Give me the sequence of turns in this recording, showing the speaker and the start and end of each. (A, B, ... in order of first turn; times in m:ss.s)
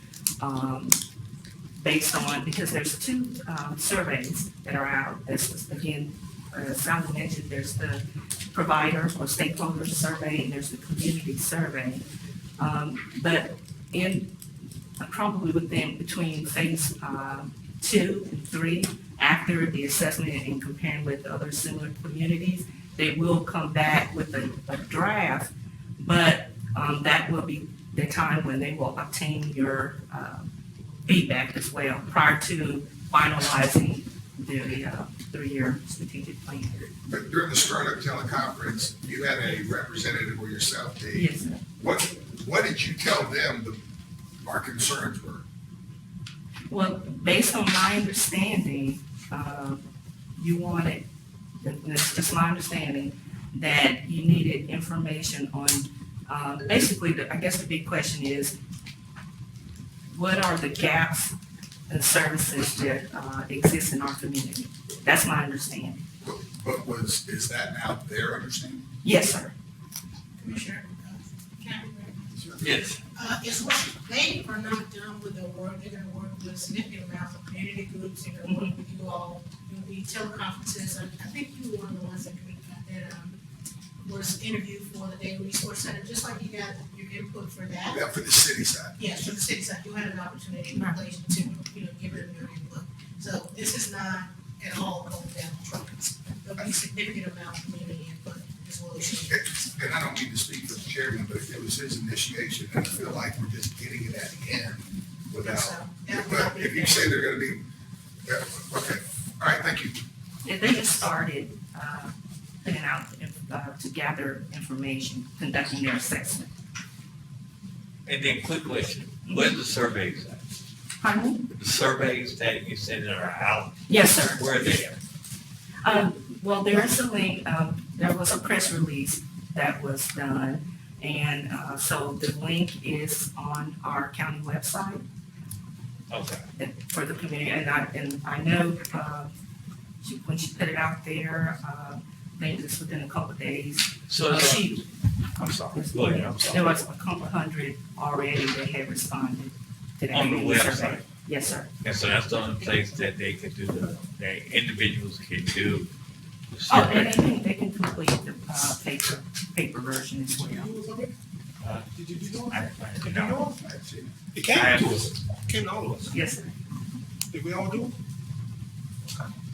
0:00.4-0:01.0 A
0:01.8-0:12.0 A
0:12.6-0:14.3 A
0:15.0-0:30.5 A
0:31.0-0:36.9 A
0:37.1-0:43.8 B
0:41.1-0:41.6 A
0:44.4-0:45.4 B
0:46.7-0:49.8 A
0:50.4-0:51.0 A
0:51.6-0:58.6 A
1:00.1-1:01.3 A
1:01.9-1:06.0 A
1:06.2-1:08.9 B
1:09.0-1:09.5 A
1:10.4-1:12.5 C
1:12.3-1:12.7 B
1:12.6-1:13.0 D
1:13.1-1:23.4 C
1:18.4-1:18.7 A
1:24.0-1:28.0 C
1:27.8-1:29.0 B
1:29.0-1:39.5 C
1:39.3-1:47.7 B
1:45.4-1:47.1 C
1:48.2-1:50.0 B
1:50.4-1:56.5 A
1:58.0-2:00.4 D
1:59.2-1:59.6 A
2:01.0-2:01.4 A
2:01.6-2:05.0 D
2:03.9-2:04.7 A
2:05.8-2:15.0 A
2:16.1-2:16.4 D
2:16.6-2:19.3 A
2:20.0-2:24.8 A
2:24.1-2:24.7 D
2:25.4-2:26.8 D
2:25.7-2:31.7 A
2:30.1-2:31.1 D
2:31.8-2:35.9 D
2:36.5-2:37.2 D
2:36.7-2:40.7 A
2:40.3-2:41.1 E
2:41.8-2:43.5 E
2:42.5-2:43.4 D
2:43.3-2:44.2 B
2:44.3-2:46.2 E
2:44.5-2:45.1 D
2:46.1-2:46.5 A
2:47.3-2:47.9 E